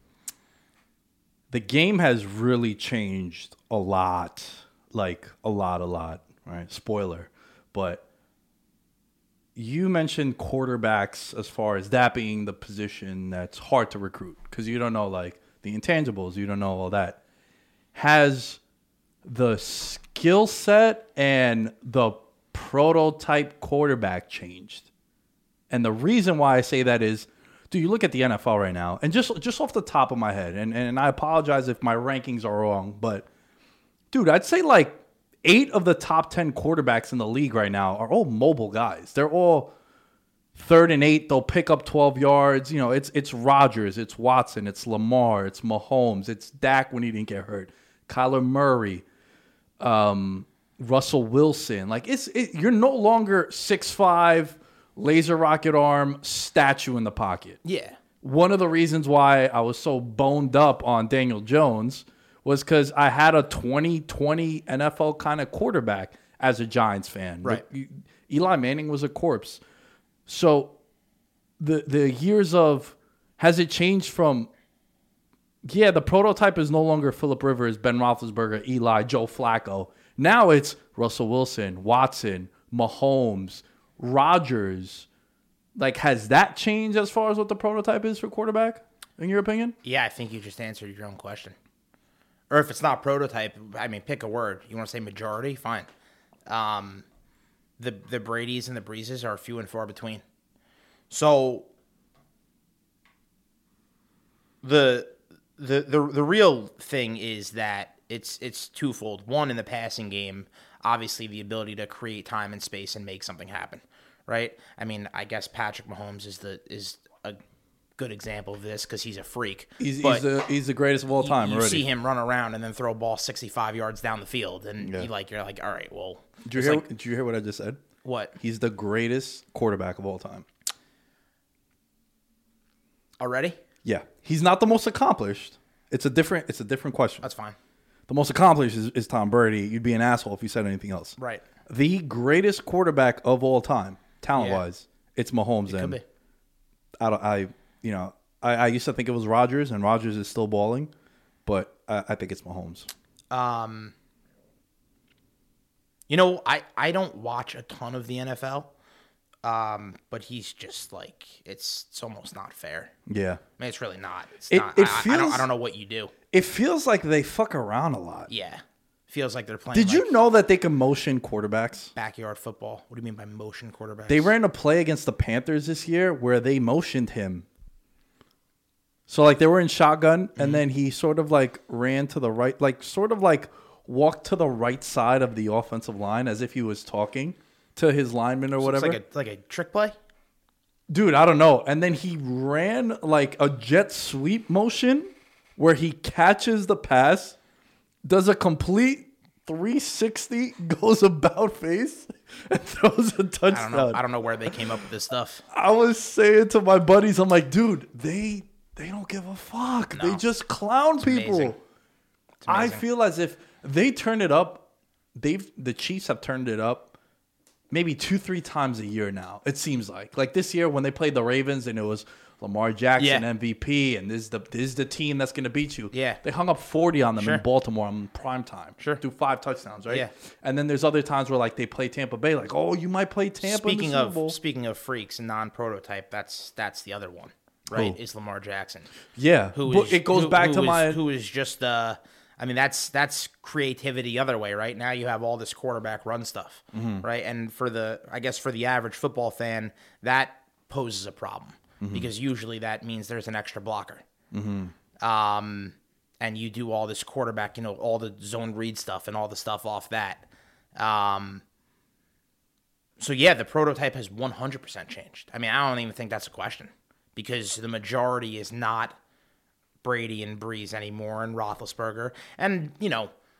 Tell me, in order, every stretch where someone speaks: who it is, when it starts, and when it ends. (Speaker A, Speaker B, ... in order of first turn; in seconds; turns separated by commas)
Speaker A: 1.5-8.0, Speaker A: 9.6-17.2, Speaker A: 17.9-18.6, Speaker A: 19.2-24.9, Speaker A: 25.7-33.3, Speaker A: 34.1-39.7, Speaker A: 40.5-49.0, Speaker A: 49.8-57.6, Speaker B: 57.6-58.0, Speaker A: 58.2-69.6, Speaker A: 70.3-70.8, Speaker A: 71.6-74.5, Speaker A: 75.6-85.1, Speaker A: 85.8-89.8, Speaker B: 89.8-91.5, Speaker B: 92.5-95.9, Speaker B: 96.5-97.0, Speaker B: 97.8-100.2, Speaker B: 101.1-101.7, Speaker B: 104.6-117.4, Speaker B: 118.0-120.3, Speaker A: 119.8-121.9, Speaker B: 121.2-126.8, Speaker A: 124.8-125.1, Speaker A: 126.5-127.8, Speaker B: 128.0-128.3, Speaker A: 128.4-130.5, Speaker B: 133.2-133.6, Speaker A: 133.8-137.3, Speaker B: 137.2-137.6, Speaker A: 138.1-141.2, Speaker B: 141.2-141.4, Speaker A: 141.7-146.0, Speaker B: 144.4-144.6, Speaker B: 145.7-146.0, Speaker A: 147.0-150.9, Speaker A: 151.5-152.9, Speaker B: 153.3-153.9, Speaker B: 156.1-158.7, Speaker B: 159.4-162.9, Speaker A: 163.1-163.4, Speaker B: 163.6-166.1, Speaker A: 164.5-165.5, Speaker A: 166.3-168.3, Speaker B: 168.3-170.1, Speaker A: 169.7-171.9, Speaker B: 172.0-174.3, Speaker A: 174.1-177.5, Speaker A: 179.1-189.0, Speaker B: 180.4-180.6, Speaker B: 188.6-189.9, Speaker A: 190.9-197.4, Speaker A: 198.1-204.5, Speaker B: 203.5-205.4, Speaker A: 205.5-211.6, Speaker B: 209.9-210.2, Speaker B: 211.0-211.6, Speaker B: 212.4-212.8, Speaker A: 212.5-216.9, Speaker A: 217.7-234.4, Speaker B: 223.0-223.2, Speaker B: 225.9-226.2, Speaker B: 227.2-227.4, Speaker B: 233.4-238.9, Speaker A: 239.2-241.0, Speaker B: 239.5-254.1, Speaker A: 246.7-247.1, Speaker A: 251.8-252.1, Speaker A: 254.3-254.7, Speaker B: 255.0-261.4, Speaker B: 263.0-269.0, Speaker B: 269.8-273.1